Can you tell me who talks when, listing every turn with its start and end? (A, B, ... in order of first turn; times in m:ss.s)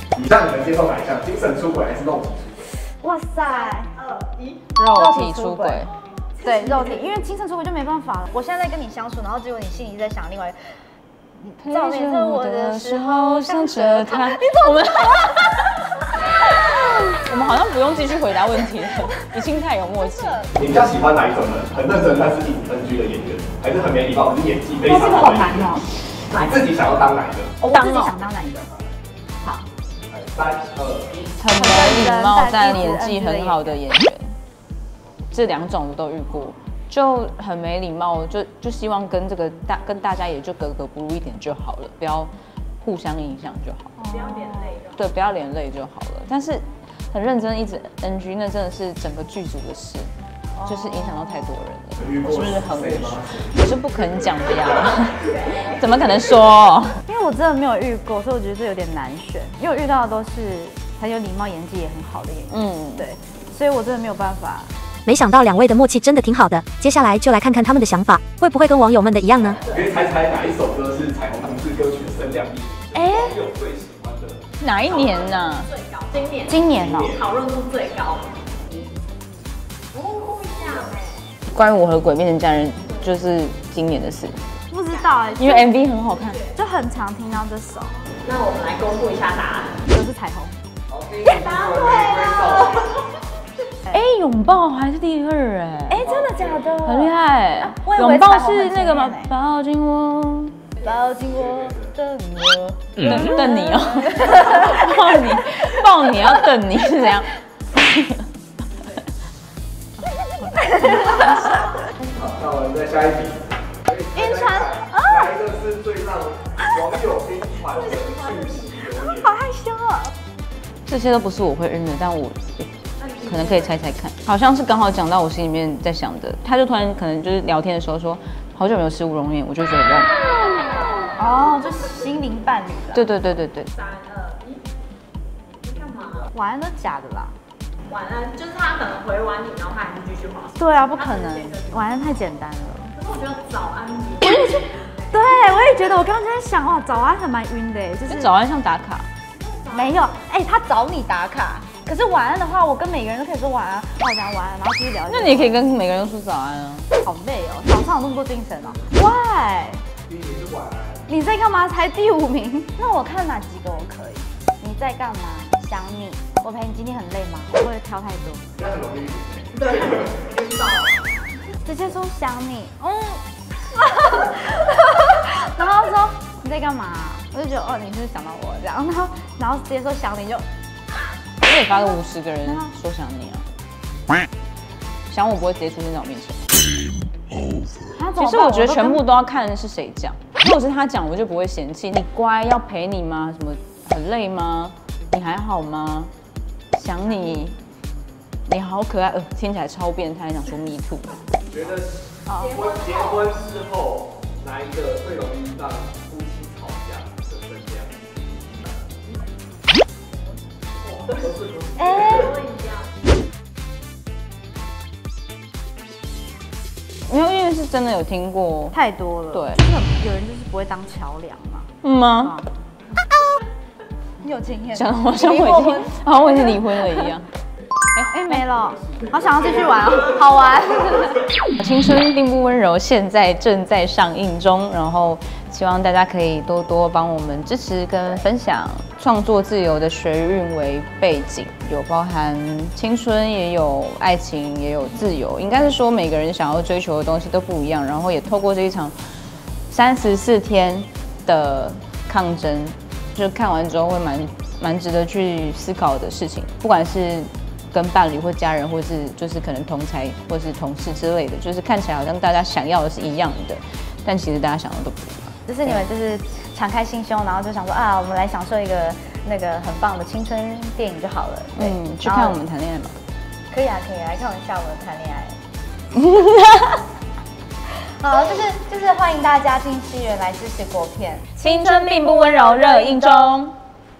0:00.1-0:02.7 A
0:03.0-0:04.0 B
0:04.1-0:04.6 C
0:04.8-0:05.9 D
0:04.9-0:15.1 B
0:11.6-0:15.5 D
0:16.7-0:20.4 D
0:20.0-0:20.5 B
0:20.6-0:25.7 A
0:24.8-0:25.9 B
0:26.3-0:26.6 C
0:26.3-0:27.5 A
0:27.6-0:28.2 D
0:27.6-0:28.7 B
0:29.4-0:29.7 B
0:30.1-0:31.2 A
0:31.4-0:34.4 D
0:31.5-0:33.8 B
0:35.3-0:44.0 D
0:44.0-0:44.8 B
0:44.2-0:45.0 C
0:44.9-0:50.1 D
0:50.5-0:51.5 B
0:50.6-0:57.0 D
0:52.0-0:53.5 A
0:57.1-1:04.7 B
1:02.5-1:03.0 D
1:05.0-1:09.6 E
1:09.6-1:14.4 A
1:12.9-1:13.3 D
1:14.6-1:15.7 D
1:15.0-1:16.5 C
1:16.5-1:17.2 B
1:16.6-1:17.3 A
1:17.1-1:18.3 C
1:20.1-1:21.0 C
1:21.5-1:24.4 D
1:24.7-1:25.7 B
1:25.4-1:26.4 D
1:26.5-1:28.0 B
1:28.2-1:29.7 C
1:29.9-1:30.6 B
1:30.9-1:32.8 A
1:31.3-1:32.8 C
1:33.9-1:36.0 D
1:35.9-1:39.3 B
1:36.0-1:36.7 A
1:36.8-1:40.6 D
1:40.8-1:45.2 B
1:41.3-1:41.9 A
1:43.0-1:48.2 D
1:50.3-1:51.6 D
1:50.5-1:51.5 B
1:52.0-1:59.4 A
1:54.1-1:55.3 B
1:57.8-1:58.8 C
1:59.1-2:00.1 B
2:00.8-2:02.7 D
2:03.0-2:03.7 C
2:03.2-2:10.1 D
2:11.1-2:13.0 B
2:12.9-2:13.7 D
2:13.8-2:14.6 C
2:15.6-2:16.3 C
2:16.3-2:17.4 B
2:17.9-2:21.8 C
2:20.6-2:23.0 B
2:23.0-2:25.2 C
2:25.1-2:28.4 B
2:28.1-2:29.1 D
2:29.7-2:35.7 B
2:35.1-2:36.9 D
2:37.0-2:39.8 B
2:40.1-2:41.0 A
2:41.1-2:48.5 B
2:48.5-2:50.0 A
2:49.8-2:50.8 C
2:51.6-3:00.4 B
3:01.4-3:03.5 D
3:01.7-3:02.7 B
3:05.1-3:06.4 D
3:07.9-3:09.0 B
3:08.2-3:16.1 D
3:16.7-3:17.6 D
3:18.5-3:21.2 D
3:21.5-3:28.7 A
3:22.2-3:22.5 B
3:22.4-3:23.1 C
3:31.1-3:32.3 A
3:31.8-3:32.4 B
3:32.4-3:32.8 C
3:37.1-3:38.8 D
3:38.7-3:42.5 B
3:39.3-3:39.6 D
3:41.8-3:42.4 D
3:44.2-3:46.6 B
3:44.7-3:47.3 D
3:47.9-3:48.5 D
3:48.0-3:51.2 B
3:48.9-3:49.7 A
3:51.5-4:09.0 D
4:09.7-4:25.8 D
4:25.5-4:32.4 B
4:31.6-4:32.9 D
4:33.5-4:35.4 B
4:35.9-4:36.8 D
4:37.9-4:43.4 B
4:41.4-4:43.6 D